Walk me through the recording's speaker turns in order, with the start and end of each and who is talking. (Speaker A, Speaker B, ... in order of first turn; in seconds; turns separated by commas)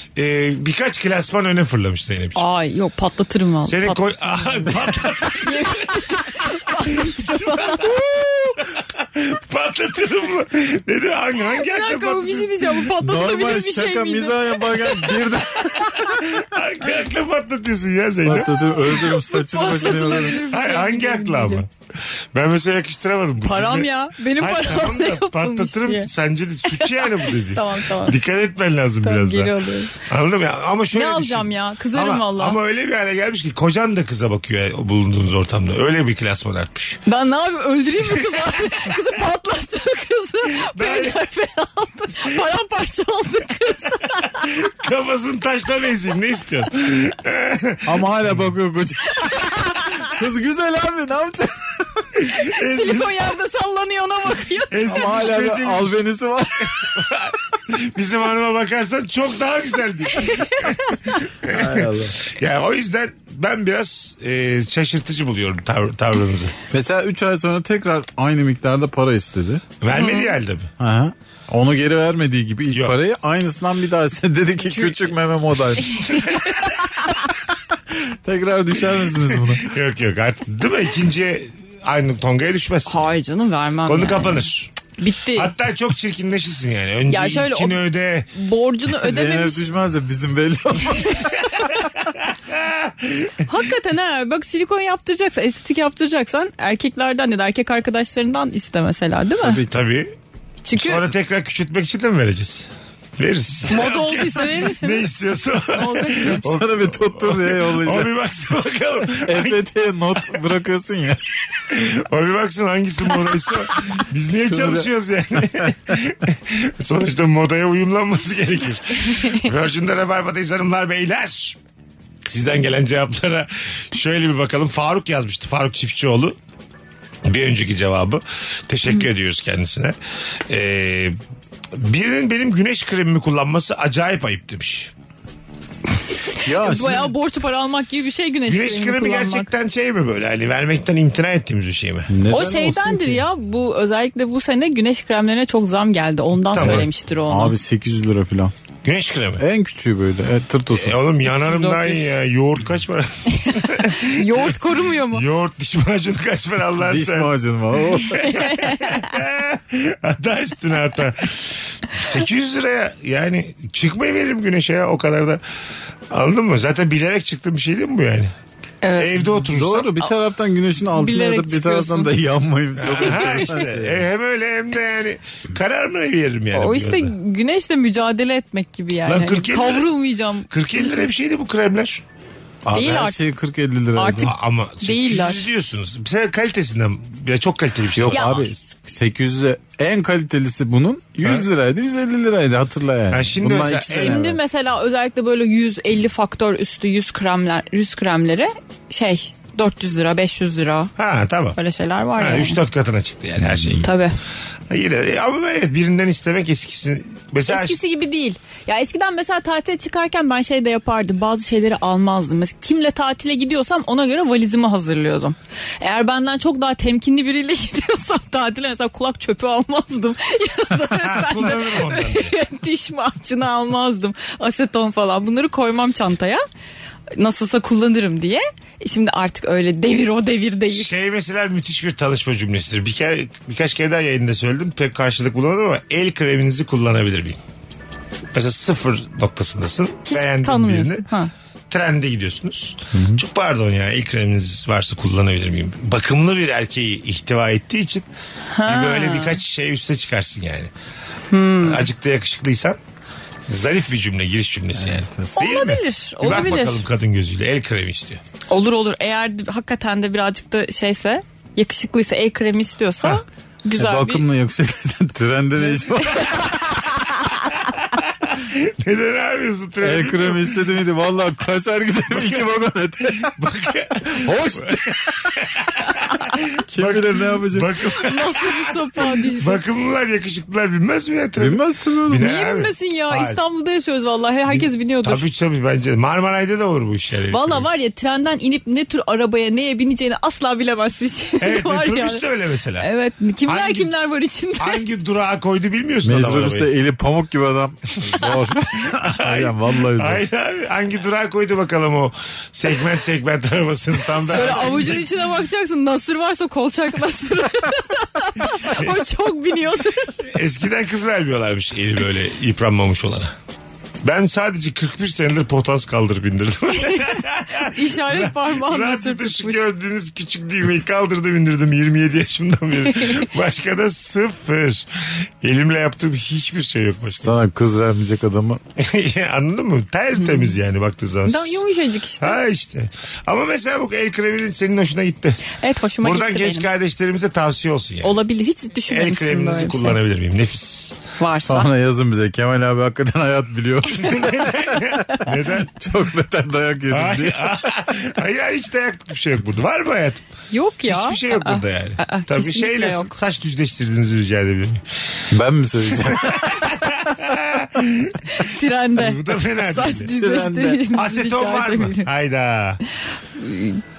Speaker A: 0.1-2.4, Speaker B: 2.3-8.0, Speaker A: 3.7-12.9, Speaker B: 11.6-16.3, Speaker C: 13.0-16.2, Speaker A: 16.2-18.7, Speaker C: 18.2-20.4, Speaker B: 18.9-21.6, Speaker A: 20.4-21.7, Speaker A: 22.3-37.0, Speaker B: 23.4-26.1, Speaker B: 26.7-28.2, Speaker B: 29.0-30.0, Speaker B: 30.9-32.6, Speaker B: 37.0-44.5, Speaker A: 38.1-38.4, Speaker A: 40.6-41.1, Speaker A: 44.4-48.4, Speaker C: 47.8-52.1, Speaker B: 49.2-50.0, Speaker A: 52.2-53.1, Speaker B: 52.4-54.9, Speaker A: 54.7-56.0, Speaker C: 54.9-57.0, Speaker A: 56.7-66.5, Speaker B: 60.2-61.1, Speaker C: 61.5-62.2, Speaker C: 66.7-69.6, Speaker A: 69.8-70.7, Speaker B: 69.9-70.3, Speaker C: 70.8-76.3, Speaker A: 72.7-73.0, Speaker B: 74.7-75.0, Speaker B: 76.0-76.3, Speaker C: 77.9-79.8, Speaker A: 79.5-83.1, Speaker B: 82.9-85.5, Speaker A: 83.8-84.7, Speaker A: 85.3-88.3, Speaker B: 87.1-89.7, Speaker C: 89.0-91.7, Speaker B: 91.1-91.4, Speaker A: 92.5-93.3, Speaker B: 93.5-99.6, Speaker C: 99.4-99.8, Speaker A: 99.7-100.1, Speaker B: 100.6-101.1, Speaker A: 100.7-109.6, Speaker B: 103.7-105.1, Speaker B: 105.7-106.4, Speaker C: 106.2-108.2, Speaker C: 109.0-111.2, Speaker A: 111.7-121.6, Speaker C: 114.5-114.9, Speaker A: 122.3-126.4, Speaker A: 127.2-129.9, Speaker A: 130.5-131.2, Speaker A: 131.8-134.9, Speaker B: 136.3-139.5, Speaker C: 136.4-137.1, Speaker A: 138.5-142.1, Speaker C: 142.1-143.2, Speaker B: 142.3-147.6, Speaker A: 146.5-146.9, Speaker C: 146.5-148.5, Speaker A: 148.8-149.4, Speaker C: 149.4-151.0, Speaker A: 150.7-154.5, Speaker B: 151.3-152.0, Speaker B: 153.3-155.2, Speaker A: 155.1-157.3, Speaker C: 156.8-158.4, Speaker A: 157.9-165.4, Speaker B: 158.2-159.0, Speaker A: 166.1-168.3, Speaker B: 168.8-169.2, Speaker A: 168.9-169.9, Speaker C: 169.3-174.1, Speaker B: 170.9-172.1, Speaker A: 172.8-177.1, Speaker B: 173.0-173.5, Speaker B: 176.5-180.5, Speaker A: 179.0-179.9, Speaker A: 180.5-182.0, Speaker C: 182.6-184.3, Speaker B: 182.7-183.3, Speaker B: 183.9-185.4, Speaker A: 184.2-188.5, Speaker C: 187.9-194.4, Speaker B: 188.1-188.4, Speaker A: 193.1-194.2, Speaker B: 193.9-200.9, Speaker A: 201.0-201.6, Speaker B: 201.6-202.6, Speaker A: 202.2-203.9, Speaker C: 203.4-203.8, Speaker B: 203.8-204.1, Speaker A: 204.7-207.8, Speaker B: 207.5-226.4, Speaker A: 220.9-222.3, Speaker B: 227.2-230.9, Speaker A: 230.7-237.4, Speaker A: 238.3-241.1, Speaker B: 240.1-241.3, Speaker A: 241.7-248.1, Speaker C: 242.9-243.2, Speaker B: 248.5-249.4, Speaker A: 248.6-250.7, Speaker B: 251.3-251.8, Speaker A: 251.6-252.8, Speaker A: 253.5-258.2, Speaker C: 254.7-255.3, Speaker B: 255.4-256.8, Speaker B: 258.5-264.2, Speaker C: 263.8-266.8, Speaker B: 265.6-266.4, Speaker A: 268.3-270.6, Speaker C: 269.8-273.3, Speaker A: 272.1-272.5, Speaker A: 273.2-283.4, Speaker C: 274.1-275.4, Speaker C: 276.7-277.7, Speaker B: 278.0-279.6, Speaker C: 281.4-282.2, Speaker B: 282.2-285.2, Speaker A: 284.6-287.6, Speaker B: 287.3-292.2, Speaker A: 291.4-292.9, Speaker B: 292.8-294.8, Speaker A: 293.5-293.9, Speaker A: 294.6-296.7, Speaker C: 296.0-300.2, Speaker A: 298.8-305.1, Speaker B: 304.3-310.1, Speaker A: 308.7-309.0, Speaker A: 310.3-313.3, Speaker A: 314.0-324.9, Speaker B: 316.8-319.6, Speaker A: 325.4-327.4, Speaker C: 327.1-328.6, Speaker A: 328.8-331.6, Speaker B: 330.2-330.6, Speaker B: 331.2-332.4, Speaker A: 332.2-335.4, Speaker B: 335.5-336.7, Speaker A: 336.0-338.1, Speaker B: 338.0-340.0, Speaker A: 338.9-341.0, Speaker B: 341.2-341.7, Speaker C: 341.4-345.0, Speaker A: 343.9-345.7, Speaker C: 345.7-347.7, Speaker A: 346.9-350.2, Speaker B: 350.5-353.1, Speaker A: 350.9-354.8, Speaker C: 355.3-356.7, Speaker A: 355.9-360.1, Speaker B: 358.3-362.1, Speaker C: 360.2-360.8, Speaker A: 360.9-362.8, Speaker B: 363.3-363.8